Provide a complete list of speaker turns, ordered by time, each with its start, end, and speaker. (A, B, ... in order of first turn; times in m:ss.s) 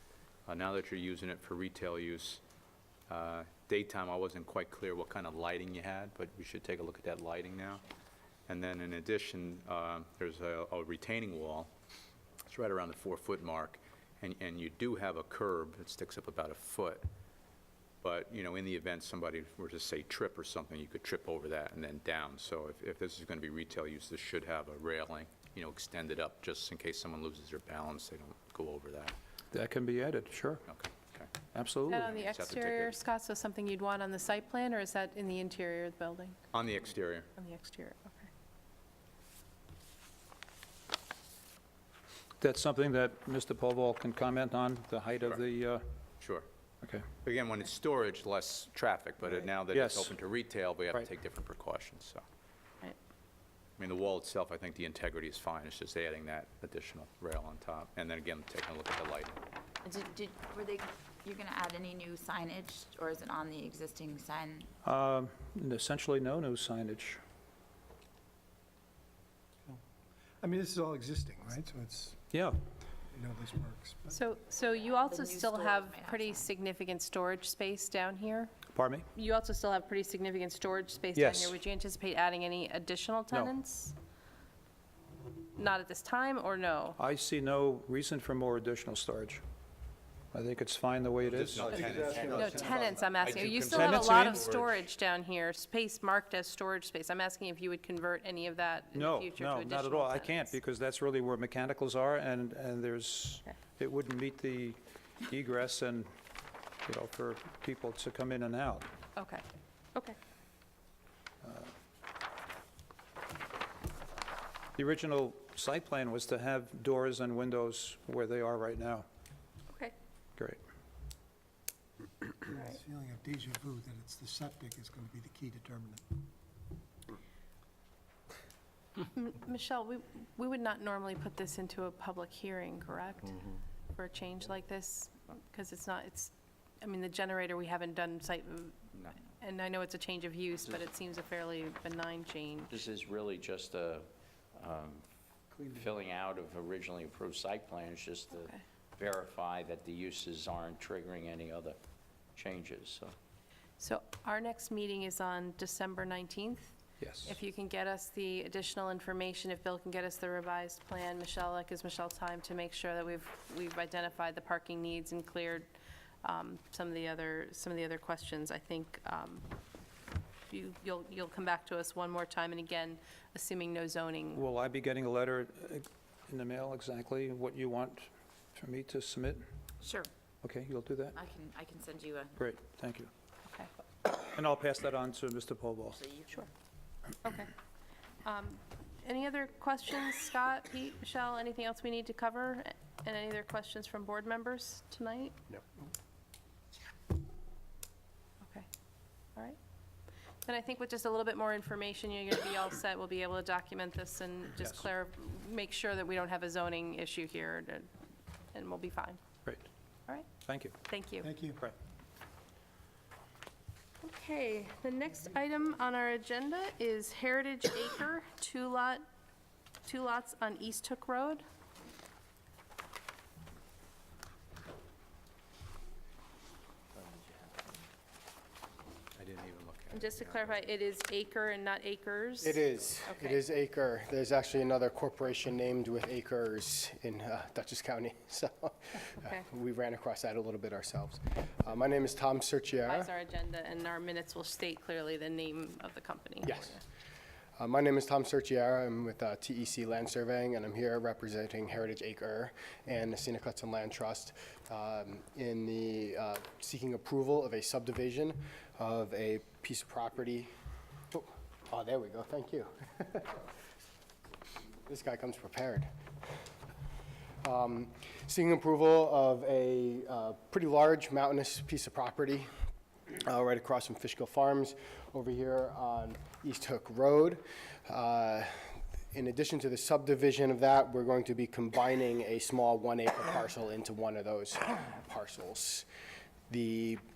0:00.5-0:02.4 A
0:03.1-0:07.8 A
0:08.5-0:11.7 A
0:12.5-0:17.0 A
0:18.0-0:29.2 A
0:29.5-0:30.6 B
0:30.7-0:31.3 A
0:31.5-0:32.2 B
0:31.9-0:36.4 C
0:31.9-0:33.0 A
0:36.5-0:37.3 A
0:37.4-0:38.3 C
0:42.4-0:45.8 B
0:46.2-0:46.4 A
0:47.2-0:52.2 A
0:49.7-0:50.1 B
0:53.8-0:59.4 A
0:59.8-1:04.7 D
1:04.8-1:07.2 B
1:10.4-1:12.2 E
1:12.3-1:12.6 B
1:13.1-1:14.2 E
1:14.1-1:18.6 C
1:14.7-1:16.5 D
1:18.7-1:19.0 B
1:19.1-1:24.0 C
1:21.1-1:21.6 B
1:23.3-1:23.6 B
1:25.6-1:27.0 C
1:27.0-1:29.4 B
1:30.3-1:32.1 B
1:31.2-1:34.7 A
1:31.5-1:33.7 E
1:32.3-1:40.6 C
1:33.6-1:34.8 B
1:38.9-1:46.1 B
1:46.8-1:48.9 B
1:49.2-1:49.4 C
1:51.4-1:51.7 B
1:54.8-1:59.0 B
2:02.4-2:06.0 E
2:09.0-2:22.7 C
2:20.6-2:20.9 F
2:22.7-2:25.0 F
2:25.5-2:26.0 E
2:25.7-2:31.8 F
2:28.3-2:28.6 C
2:32.3-2:33.1 F
2:33.8-2:45.7 C
2:37.0-2:37.4 B
2:46.2-2:49.4 C
2:50.5-2:54.4 C
2:54.3-2:59.4 B
2:59.8-3:00.1 D
3:00.4-3:01.2 B
3:01.2-3:02.3 D
3:02.4-3:03.1 B
3:04.1-3:06.0 B
3:06.0-3:06.3 D
3:07.2-3:07.5 C
3:08.2-3:15.4 C
3:20.4-3:27.9 C
3:24.6-3:24.9 B
3:28.5-3:29.2 C
3:30.4-3:30.8 B
3:30.9-3:31.3 C
3:31.2-3:31.6 E
3:34.0-3:39.0 C
3:39.8-3:41.4 C
3:49.2-3:50.7 A
3:49.9-3:53.4 C
3:52.4-4:03.1 G
4:02.8-4:06.8 C
4:06.4-4:06.8 G
4:07.6-4:20.5 G
4:21.1-4:23.4 G
4:24.8-4:25.9 G
4:27.4-4:32.5 G
4:33.1-4:45.9 G
4:46.5-4:47.0 G